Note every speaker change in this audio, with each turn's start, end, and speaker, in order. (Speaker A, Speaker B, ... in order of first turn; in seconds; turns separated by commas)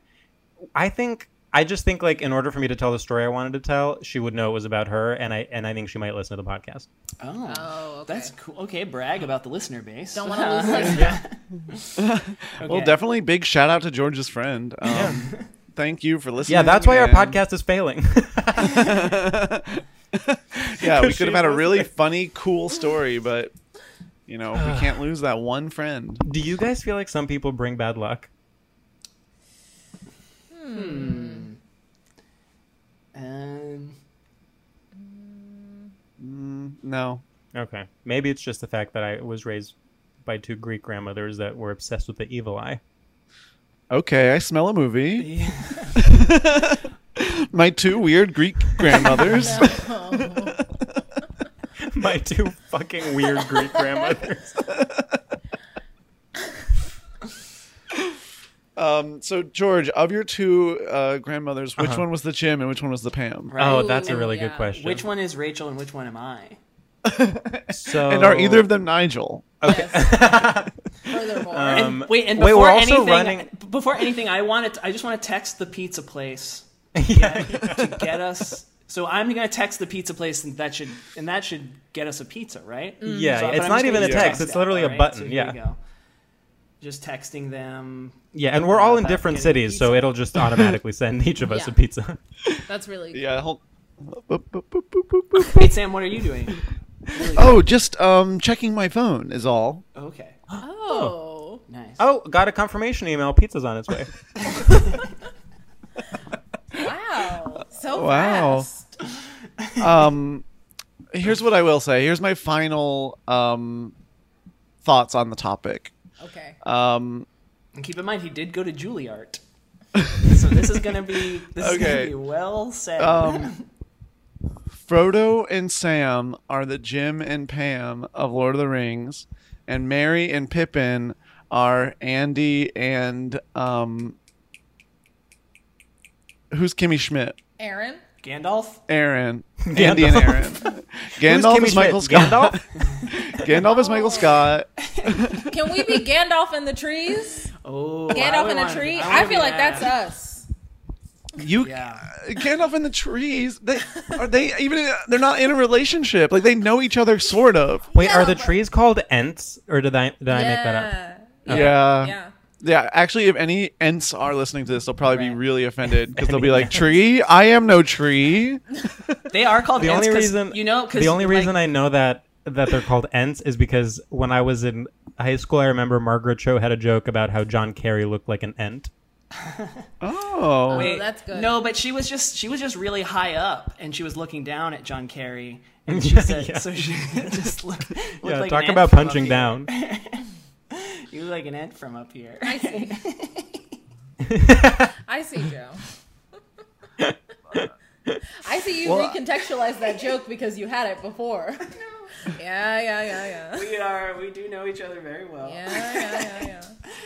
Speaker A: 0.8-6.9, Speaker B: 7.2-12.0, Speaker C: 7.5-8.3, Speaker C: 10.1-11.2, Speaker A: 10.9-11.2, Speaker D: 12.0-17.4, Speaker B: 12.6-13.0, Speaker B: 14.9-15.5, Speaker A: 14.9-15.2, Speaker A: 16.5-19.0, Speaker D: 18.6-23.5, Speaker A: 20.8-21.9, Speaker D: 24.3-26.2, Speaker A: 24.5-25.0, Speaker A: 26.2-28.3, Speaker C: 30.5-31.5, Speaker B: 30.7-31.6, Speaker B: 33.1-34.0, Speaker C: 35.0-35.9, Speaker D: 36.2-37.2, Speaker A: 37.5-39.7, Speaker A: 40.2-42.8, Speaker D: 43.9-45.3, Speaker B: 45.2-46.2, Speaker D: 46.0-50.8, Speaker A: 48.9-49.2, Speaker C: 49.3-50.6, Speaker A: 51.9-54.5, Speaker D: 58.8-63.5, Speaker A: 61.8-62.0, Speaker B: 63.5-66.6, Speaker A: 63.6-65.1, Speaker C: 63.6-64.7, Speaker D: 67.0-69.6, Speaker A: 67.7-68.7, Speaker A: 69.6-70.7, Speaker C: 69.7-70.5, Speaker C: 71.1-72.0, Speaker A: 71.5-73.5, Speaker B: 71.7-85.8, Speaker A: 77.0-78.0, Speaker C: 83.0-83.7, Speaker A: 83.0-85.6, Speaker D: 84.0-84.5, Speaker B: 86.8-90.1, Speaker A: 88.3-92.2, Speaker C: 91.5-91.8, Speaker C: 92.7-93.2, Speaker D: 93.1-95.7, Speaker B: 95.5-97.7, Speaker D: 97.2-99.8, Speaker B: 100.0-100.4, Speaker A: 100.5-101.1, Speaker C: 100.6-101.6, Speaker B: 101.7-102.0, Speaker A: 102.0-104.1, Speaker B: 104.5-105.0, Speaker C: 106.8-109.0, Speaker D: 107.9-108.7, Speaker D: 109.8-110.5, Speaker D: 111.1-114.0, Speaker D: 114.8-115.9, Speaker C: 116.2-116.6, Speaker D: 116.6-117.3, Speaker B: 117.8-119.4, Speaker D: 120.0-120.3, Speaker B: 120.2-123.7, Speaker D: 121.5-122.2, Speaker D: 123.0-123.5, Speaker D: 124.8-134.2, Speaker D: 136.5-137.4, Speaker C: 137.6-138.0, Speaker B: 138.2-138.8, Speaker D: 138.9-145.5, Speaker A: 139.6-140.6, Speaker A: 141.2-142.7, Speaker C: 143.5-144.4, Speaker B: 144.9-145.3, Speaker C: 145.5-147.5, Speaker B: 147.6-149.9, Speaker C: 148.1-150.5, Speaker D: 151.4-157.9, Speaker B: 151.6-152.1, Speaker C: 157.9-158.5, Speaker A: 157.9-160.9, Speaker C: 160.3-162.3, Speaker A: 161.5-161.7, Speaker D: 161.5-169.2, Speaker B: 165.1-165.4, Speaker A: 166.2-167.0, Speaker B: 169.3-171.6, Speaker A: 169.8-178.9, Speaker B: 179.4-179.8, Speaker D: 180.0-181.0, Speaker C: 180.7-181.6, Speaker B: 180.7-193.6, Speaker A: 185.9-186.7, Speaker A: 188.2-189.7, Speaker C: 192.4-193.0, Speaker A: 194.2-194.9, Speaker C: 195.1-195.8, Speaker A: 197.0-198.2, Speaker C: 198.4-201.7, Speaker D: 198.8-199.2, Speaker C: 202.3-203.7, Speaker B: 203.5-206.4, Speaker C: 205.4-206.7